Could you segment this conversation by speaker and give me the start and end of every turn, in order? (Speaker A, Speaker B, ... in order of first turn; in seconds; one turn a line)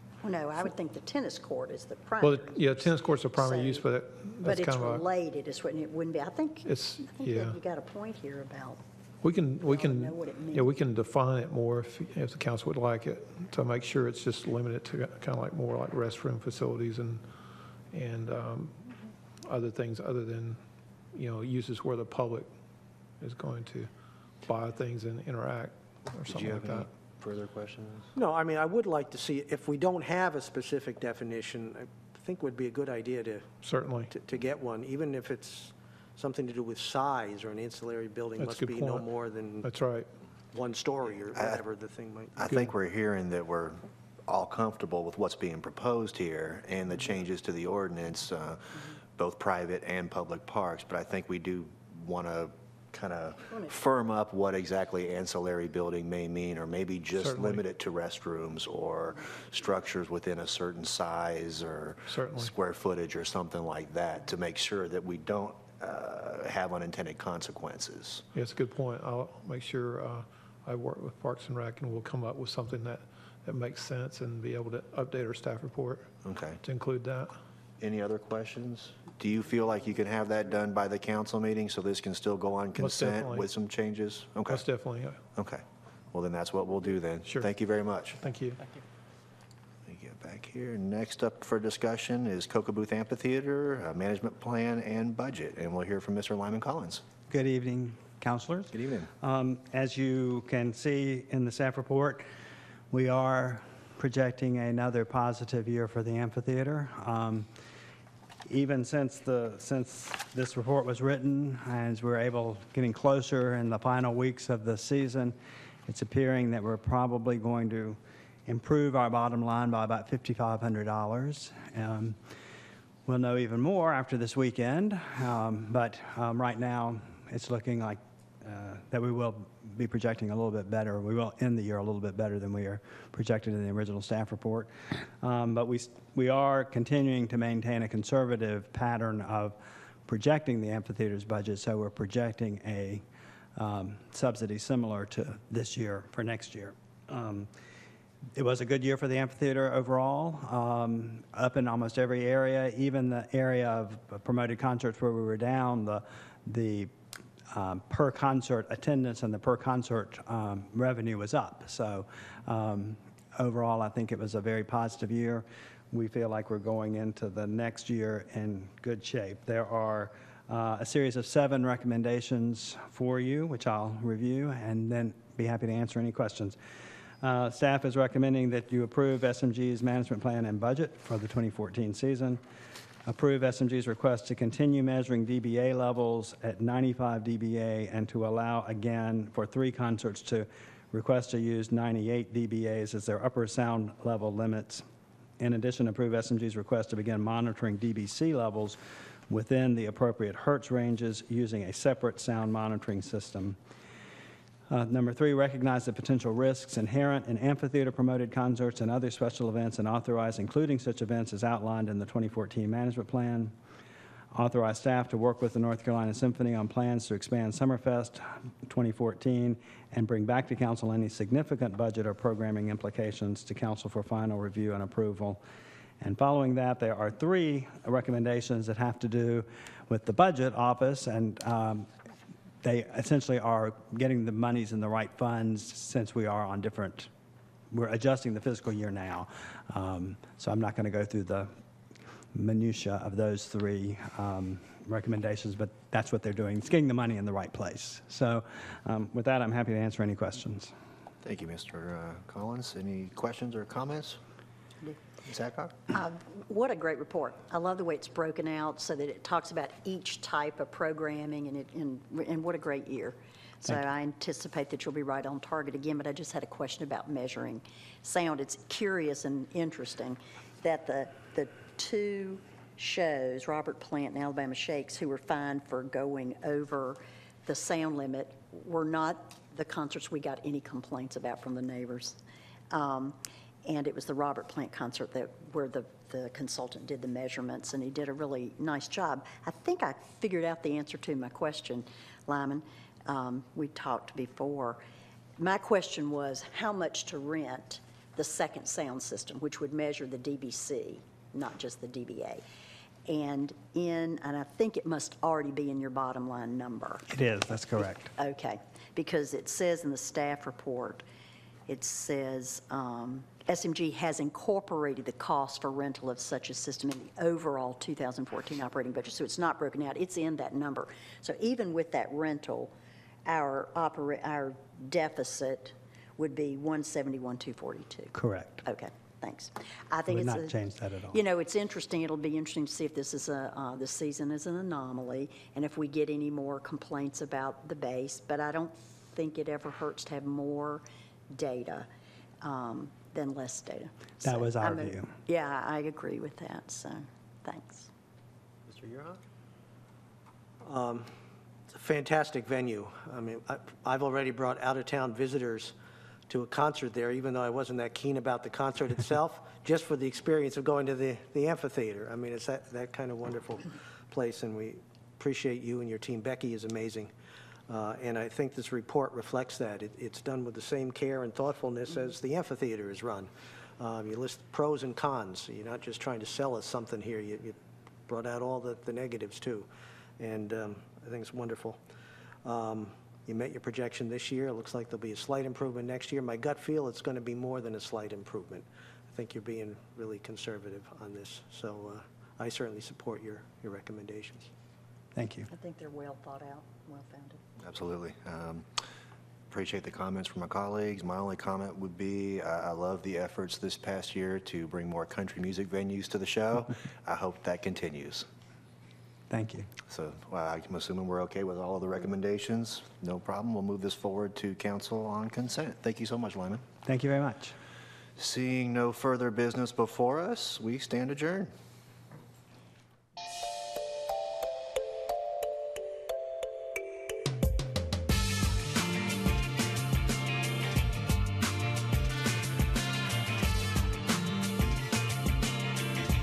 Speaker A: 0.2-3.9
Speaker B: 2.2-5.0
Speaker A: 4.4-8.8
Speaker B: 6.7-7.6
Speaker B: 9.2-17.2
Speaker A: 9.6-10.7
Speaker B: 17.9-18.8
Speaker B: 19.5-20.6
Speaker B: 21.1-22.5
Speaker B: 23.2-23.9
Speaker B: 24.4-26.9
Speaker C: 26.3-28.1
Speaker D: 28.1-33.5
Speaker B: 33.6-34.1
Speaker D: 34.1-39.7
Speaker B: 38.4-39.1
Speaker B: 39.6-40.1
Speaker D: 40.5-42.5
Speaker C: 41.4-41.6
Speaker C: 42.4-68.2
Speaker B: 42.5-42.7
Speaker B: 57.1-57.6
Speaker B: 62.1-62.5
Speaker B: 68.3-76.1
Speaker C: 76.2-76.6
Speaker B: 76.6-77.4
Speaker C: 77.8-84.6
Speaker B: 82.8-83.5
Speaker B: 84.5-85.2
Speaker C: 85.4-88.2
Speaker B: 87.2-87.5
Speaker B: 88.2-88.6
Speaker C: 89.9-97.0
Speaker E: 97.3-102.2
Speaker C: 98.7-99.1
Speaker E: 102.9-107.5
Speaker E: 108.5-115.3
Speaker E: 115.9-122.2
Speaker E: 123.1-143.0
Speaker E: 143.6-147.5
Speaker E: 148.4-156.9
Speaker E: 157.5-176.6
Speaker E: 177.2-182.4
Speaker E: 183.1-194.8
Speaker E: 195.4-203.6
Speaker E: 204.7-213.5
Speaker E: 214.3-225.4
Speaker E: 226.0-231.9
Speaker E: 232.6-237.1
Speaker E: 237.7-241.5
Speaker E: 242.3-250.7
Speaker C: 251.2-254.2
Speaker C: 255.2-255.8
Speaker A: 255.9-282.2
Speaker A: 282.7-294.8
Speaker A: 295.4-302.4
Speaker A: 303.1-307.1
Speaker E: 307.1-308.1
Speaker A: 308.2-311.0
Speaker A: 311.7-322.7
Speaker A: 323.3-328.1
Speaker E: 328.1-328.6
Speaker A: 328.6-330.6
Speaker E: 330.1-331.2
Speaker A: 331.1-341.9
Speaker A: 342.4-347.9
Speaker E: 344.2-345.1
Speaker C: 348.7-349.2
Speaker D: 350.6-351.1
Speaker D: 351.7-355.8
Speaker D: 356.3-367.1
Speaker D: 367.7-377.6
Speaker D: 378.1-379.7
Speaker D: 380.2-381.8
Speaker D: 382.4-394.5
Speaker E: 395.1-395.5
Speaker A: 395.5-397.4
Speaker C: 397.6-398.6
Speaker C: 399.5-408.3
Speaker E: 409.3-409.7
Speaker C: 409.9-416.6
Speaker E: 416.9-417.6
Speaker C: 418.2-421.5